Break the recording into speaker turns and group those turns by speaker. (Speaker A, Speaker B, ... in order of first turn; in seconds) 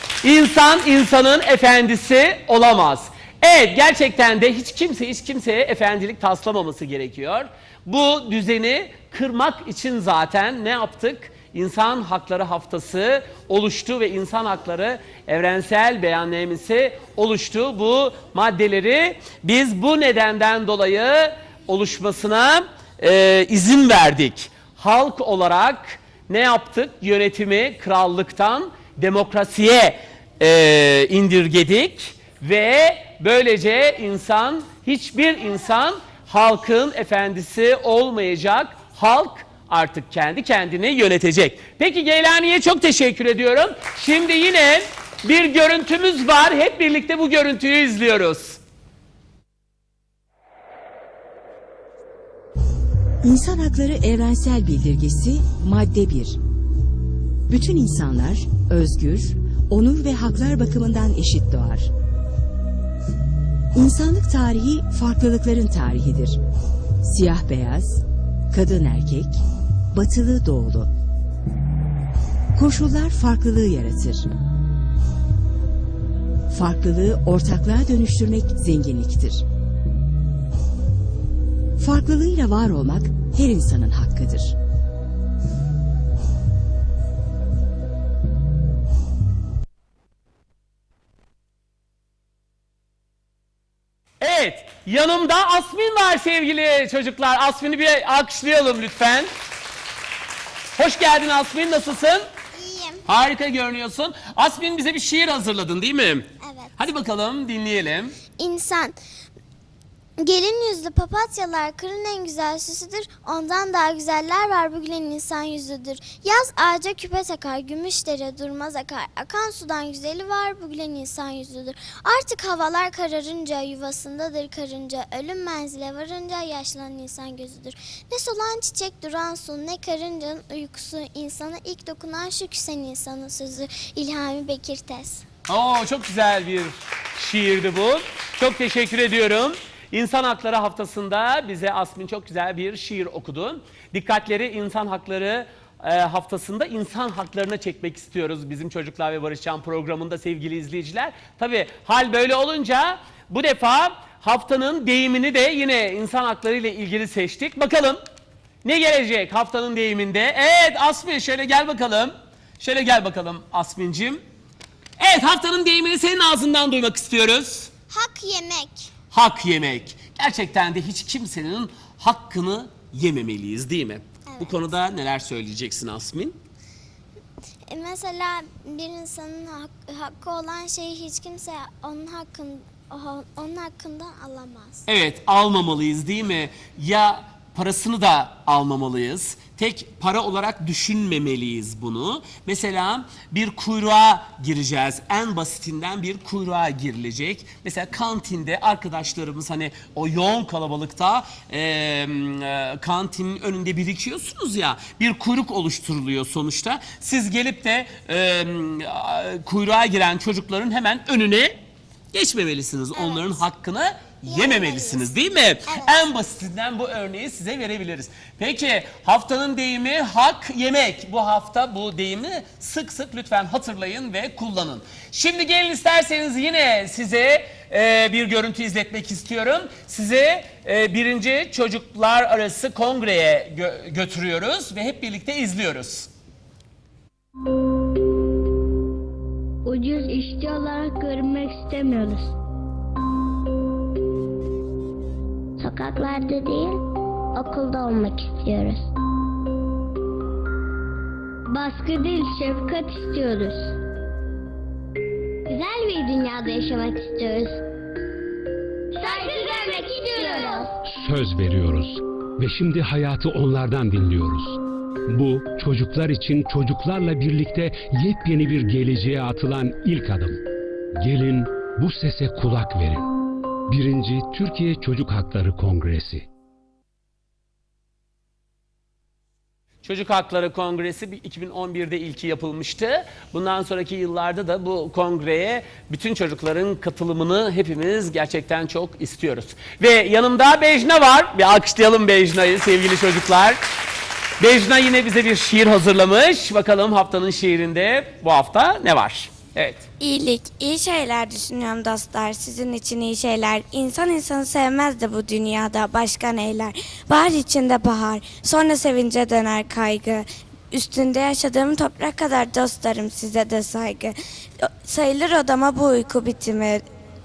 Speaker A: 0.2-48.6, 94.2-99.3, 100.8-102.3, 103.1-108.2, 135.5-158.0, 158.6-164.2, 165.0-167.7, 169.1-176.3, 184.9-211.6, 212.1-236.1, 279.8-293.6, 294.4-299.9
Speaker B: 53.2-56.4, 57.5-61.9, 63.7-66.4, 67.0-70.9, 72.5-74.3, 76.5-79.4, 81.8-84.6
Speaker C: 102.5-103.0, 106.4-106.7, 108.4-109.0, 110.2-135.2, 167.9-168.9, 174.3-174.6, 177.7-184.8, 212.9-213.4, 214.3-216.0
Speaker D: 239.7-242.3, 245.6-246.8, 247.4-248.9, 251.5-253.8, 255.5-257.6, 259.0-260.8
Speaker E: 260.9-264.6, 265.1-270.4, 271.0-273.1, 273.7-276.3
Speaker F: 300.0-316.9